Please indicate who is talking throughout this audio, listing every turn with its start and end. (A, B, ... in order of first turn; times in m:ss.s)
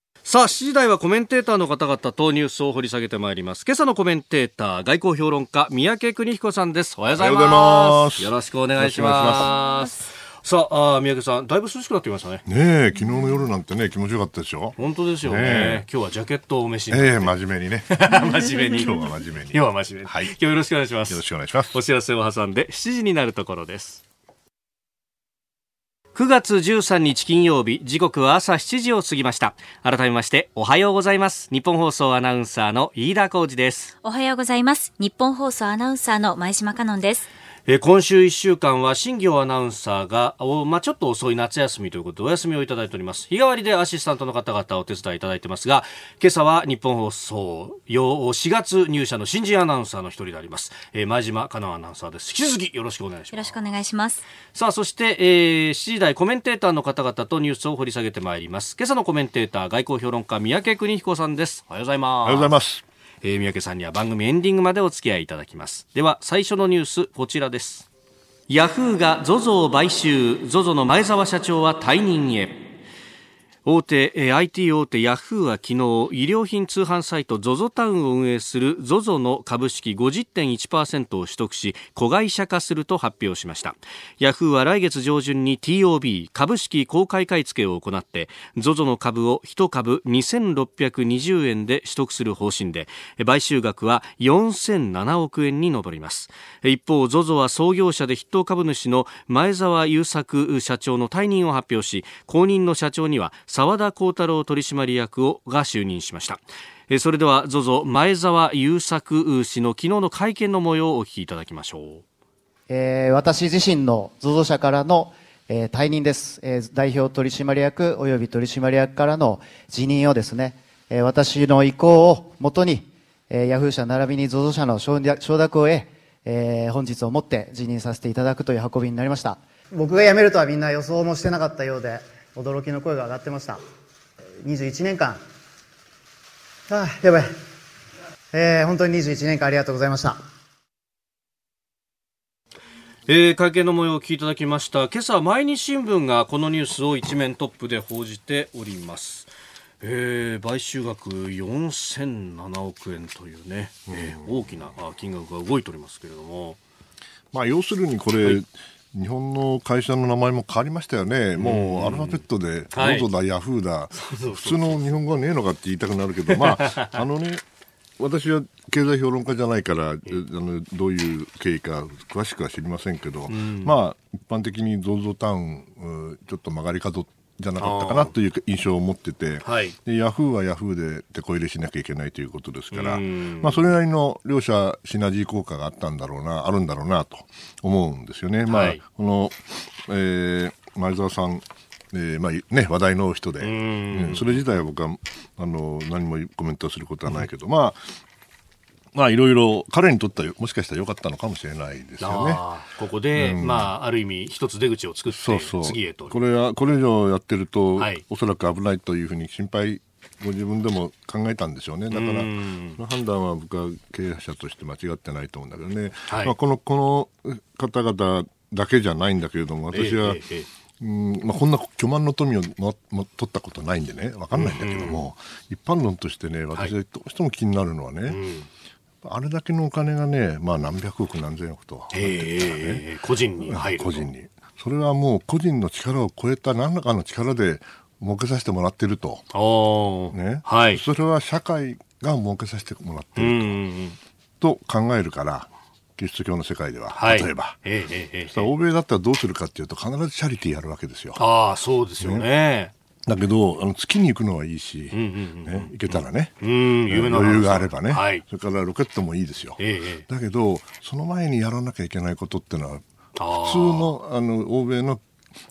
0:00.2-0:12.4 A
0:07.2-0:09.5 B
0:12.4-0:15.8 B
0:14.8-0:17.3 A
0:16.9-0:20.3 B
0:17.9-0:24.0 A
0:21.1-0:21.8 B
0:26.1-0:33.9 A
0:34.0-0:37.3 C
0:37.7-0:53.5 A
0:53.3-0:54.2 C
0:54.5-1:02.6 A
1:02.2-1:02.8 B
1:03.2-1:07.9 A
1:08.5-1:12.6 A
1:13.6-1:52.0 A
1:52.7-2:09.4 D
2:09.7-2:13.6 E
2:14.4-2:15.2 E
2:16.7-2:17.3 E
2:18.3-2:20.2 E
2:23.1-2:29.3 A
2:29.8-2:36.6 A
2:33.9-2:34.6 B
2:37.3-2:47.4 B
2:41.4-2:42.2 A
2:42.7-2:43.1 A
2:44.0-2:44.9 A
2:46.3-2:46.9 A
2:48.0-3:17.9 B
2:53.3-2:53.7 A
2:57.6-2:58.1 A
2:59.4-2:59.8 A
3:02.7-3:03.6 A
3:08.5-3:08.8 A
3:13.4-3:14.4 A
3:18.9-3:22.4 B
3:22.0-3:26.2 A
3:23.1-3:23.7 B
3:25.1-3:40.2 B
3:27.8-3:28.0 A
3:31.9-3:32.8 A
3:36.1-3:36.3 A
3:39.7-3:40.5 A
3:40.8-3:48.2 B
3:44.3-3:45.0 A
3:48.1-3:48.5 A
3:49.0-3:52.8 B
3:51.9-3:54.1 A
3:53.4-3:59.3 B
3:59.3-4:00.8 A
4:00.1-4:03.6 B
4:03.2-4:04.0 A
4:04.4-4:07.6 B
4:06.9-4:08.5 A
4:08.3-4:11.2 B
4:11.2-4:12.7 A
4:13.0-4:22.8 B
4:14.9-4:18.2 A
4:19.6-4:20.0 A
4:23.2-4:23.9 A
4:23.4-4:25.0 B